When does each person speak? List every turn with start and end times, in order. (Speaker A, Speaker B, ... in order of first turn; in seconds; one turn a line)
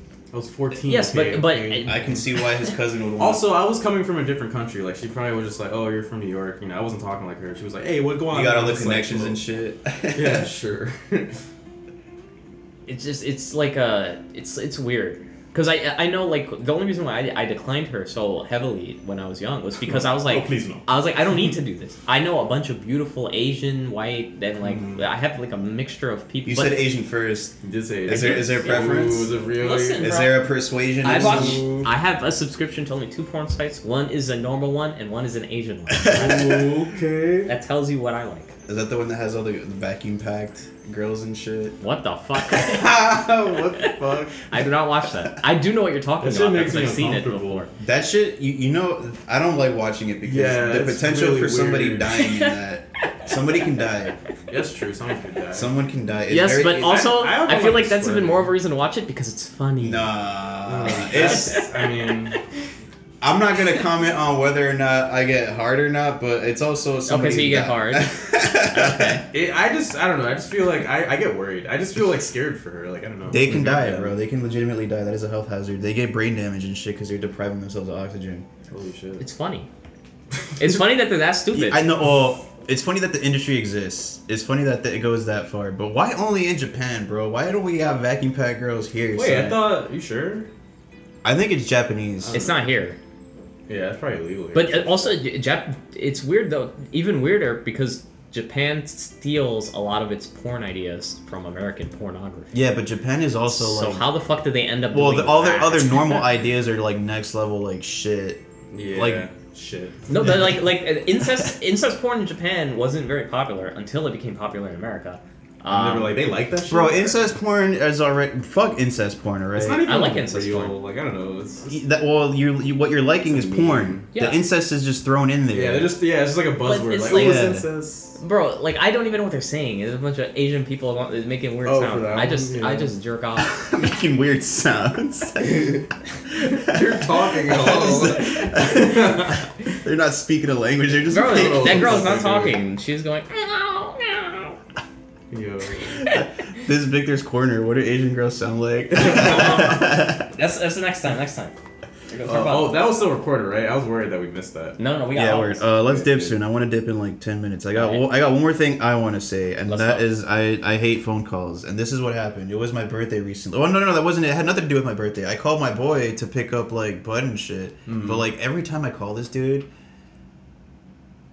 Speaker A: 0.3-2.2
Speaker B: 0.8-2.0
Speaker C: 1.9-3.5
Speaker A: 3.2-9.4
Speaker C: 8.3-10.5
Speaker A: 10.1-11.4
Speaker B: 12.9-26.9
Speaker A: 19.9-20.9
Speaker A: 24.6-25.0
Speaker C: 26.4-29.3
Speaker A: 27.6-30.1
Speaker B: 28.1-30.4
Speaker C: 30.0-31.7
Speaker B: 31.0-36.5
Speaker A: 31.0-31.9
Speaker C: 35.9-36.7
Speaker A: 36.1-37.5
Speaker B: 37.5-38.5
Speaker C: 38.7-41.8
Speaker B: 41.8-43.0
Speaker A: 42.6-44.4
Speaker B: 43.8-47.7
Speaker A: 46.2-47.7
Speaker C: 47.8-54.2
Speaker A: 50.2-52.1
Speaker B: 52.2-52.5
Speaker A: 54.5-55.7
Speaker C: 55.5-57.1
Speaker B: 56.3-60.1
Speaker A: 56.8-58.5
Speaker C: 59.8-61.6
Speaker A: 60.7-62.4
Speaker B: 60.9-61.7
Speaker C: 63.2-69.2
Speaker B: 67.1-68.1
Speaker B: 68.7-69.2
Speaker A: 69.3-74.2
Speaker C: 73.3-78.5
Speaker A: 78.7-79.2
Speaker B: 79.2-79.7
Speaker B: 80.6-81.9
Speaker C: 81.5-89.7
Speaker A: 89.1-90.5
Speaker C: 91.2-92.4
Speaker A: 92.2-92.7
Speaker B: 92.3-93.0
Speaker A: 93.7-95.1
Speaker B: 94.5-102.5
Speaker C: 102.5-104.1
Speaker B: 103.5-106.2
Speaker C: 104.9-109.3
Speaker A: 108.7-110.1
Speaker B: 110.1-116.2
Speaker A: 115.7-117.3
Speaker C: 116.7-119.8
Speaker A: 119.5-121.8
Speaker B: 119.8-120.8
Speaker C: 121.7-125.9
Speaker A: 123.2-124.1
Speaker B: 124.2-124.4
Speaker A: 125.5-128.2
Speaker B: 126.7-127.5
Speaker C: 127.1-127.7
Speaker B: 128.2-133.5
Speaker A: 131.6-133.0
Speaker C: 133.4-142.3
Speaker A: 135.5-135.8
Speaker A: 136.4-139.4
Speaker B: 141.1-144.6
Speaker A: 141.2-142.6
Speaker A: 145.3-146.0
Speaker C: 146.1-150.3
Speaker B: 149.0-151.6
Speaker A: 149.0-149.6
Speaker B: 152.1-152.8
Speaker A: 152.2-154.8
Speaker B: 154.8-155.7
Speaker C: 155.1-169.7
Speaker A: 155.8-156.4
Speaker B: 157.7-158.1
Speaker B: 159.7-160.1
Speaker A: 167.9-168.3